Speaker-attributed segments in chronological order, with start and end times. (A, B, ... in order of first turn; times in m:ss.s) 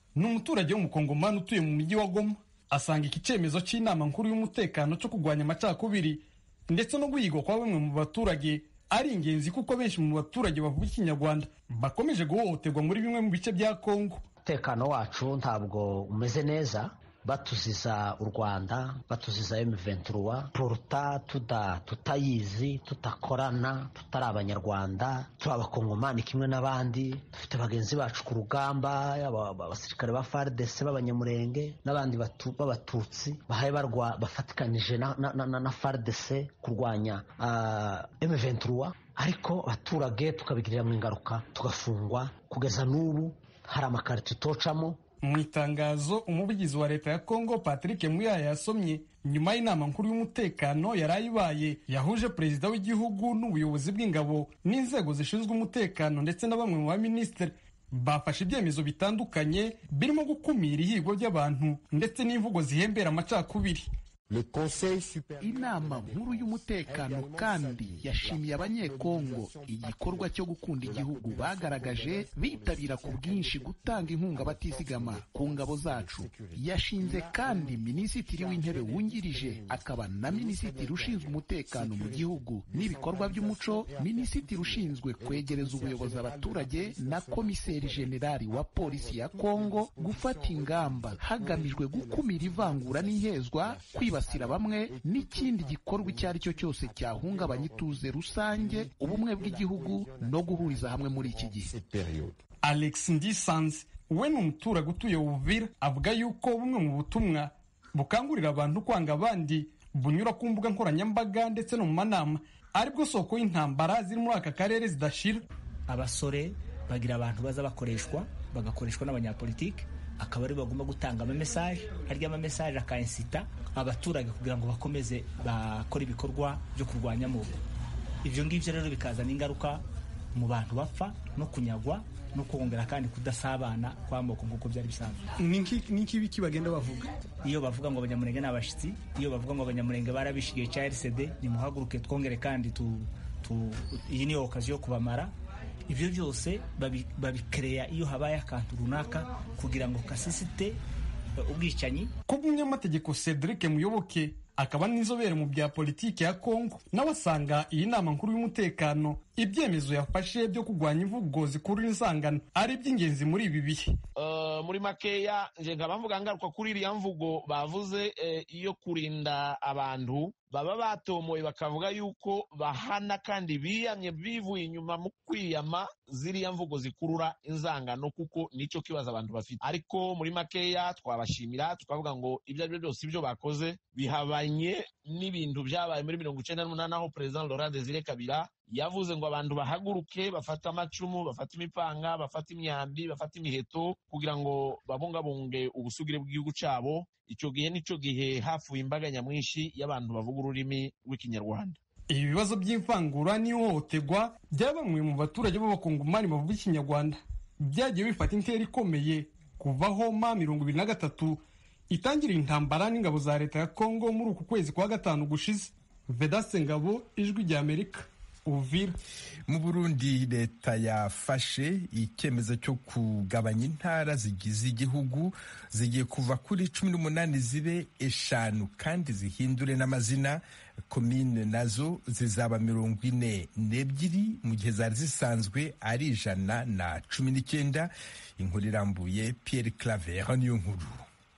0:00.2-0:14.2 A
0:14.4-0:45.0 B
0:45.2-1:03.9 A
1:04.5-1:42.3 C
1:42.6-1:55.4 A
1:55.9-2:07.5 D
2:08.2-2:09.8 D
2:10.3-2:15.3 D
2:15.4-2:17.1 A
2:17.4-2:25.3 D
2:25.9-2:30.8 D
2:31.4-2:32.1 D
2:32.3-2:43.9 A
2:44.2-3:21.8 E
3:22.1-3:39.0 A
3:39.5-4:01.0 F